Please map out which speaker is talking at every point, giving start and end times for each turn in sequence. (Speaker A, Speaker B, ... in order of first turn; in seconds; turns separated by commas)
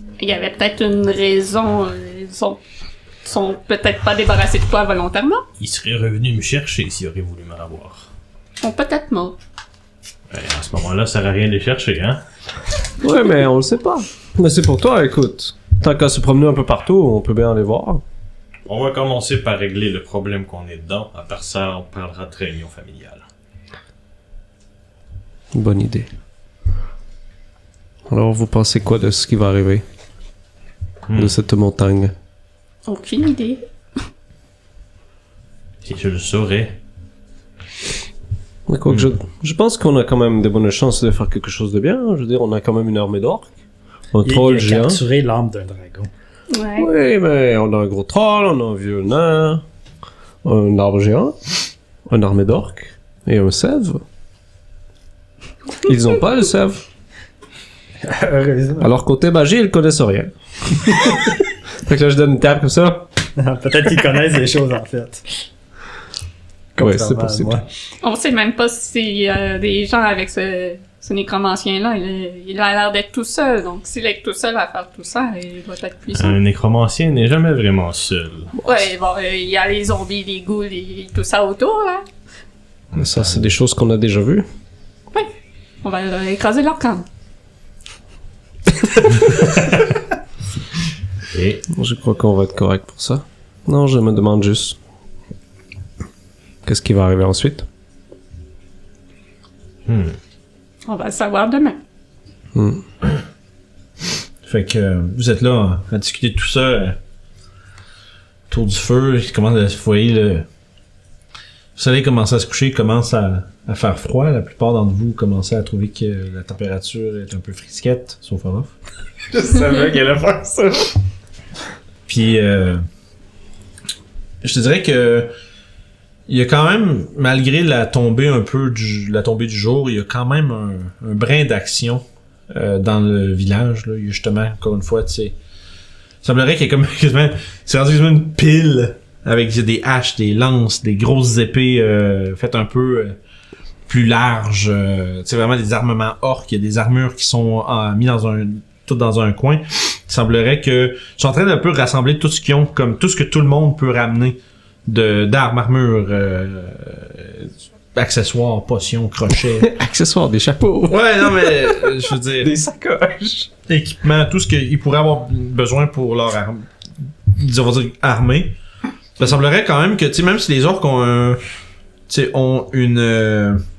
Speaker A: 0.2-2.6, Speaker A: 3.2-5.4, Speaker B: 5.6-8.1, Speaker A: 8.6-9.4, Speaker B: 10.3-12.2, Speaker C: 13.0-18.0, Speaker B: 18.7-23.2, Speaker C: 25.5-26.1, Speaker C: 28.1-29.8, Speaker B: 31.1-31.4, Speaker C: 31.1-32.1, Speaker A: 32.9-33.6, Speaker B: 35.8-36.8, Speaker C: 38.7-43.5, Speaker C: 44.1-45.0, Speaker D: 44.2-46.1, Speaker A: 46.5-46.9, Speaker C: 46.8-49.6, Speaker C: 50.4-54.0, Speaker C: 55.8-56.8, Speaker D: 58.0-58.9, Speaker C: 58.8-63.1, Speaker D: 63.4-65.2, Speaker D: 66.8-67.7, Speaker C: 66.8-67.6, Speaker A: 68.0-76.4, Speaker B: 76.2-78.5, Speaker A: 78.6-82.0, Speaker B: 82.9-83.5, Speaker C: 82.9-84.5, Speaker A: 85.8-87.0, Speaker B: 91.3-91.7, Speaker C: 91.7-94.8, Speaker C: 96.7-97.7, Speaker B: 99.9-100.2, Speaker A: 100.9-101.8, Speaker C: 102.5-102.8, Speaker E: 104.4-107.0, Speaker E: 108.5-110.5, Speaker E: 111.8-118.7, Speaker C: 119.3-120.9, Speaker E: 122.1-122.8, Speaker E: 124.4-125.3, Speaker E: 126.3-135.4, Speaker E: 136.2-143.2, Speaker E: 143.9-159.7, Speaker C: 159.6-163.5, Speaker E: 160.9-162.6, Speaker E: 163.7-166.7, Speaker E: 167.3-168.6, Speaker E: 169.2-171.4, Speaker E: 172.1-173.6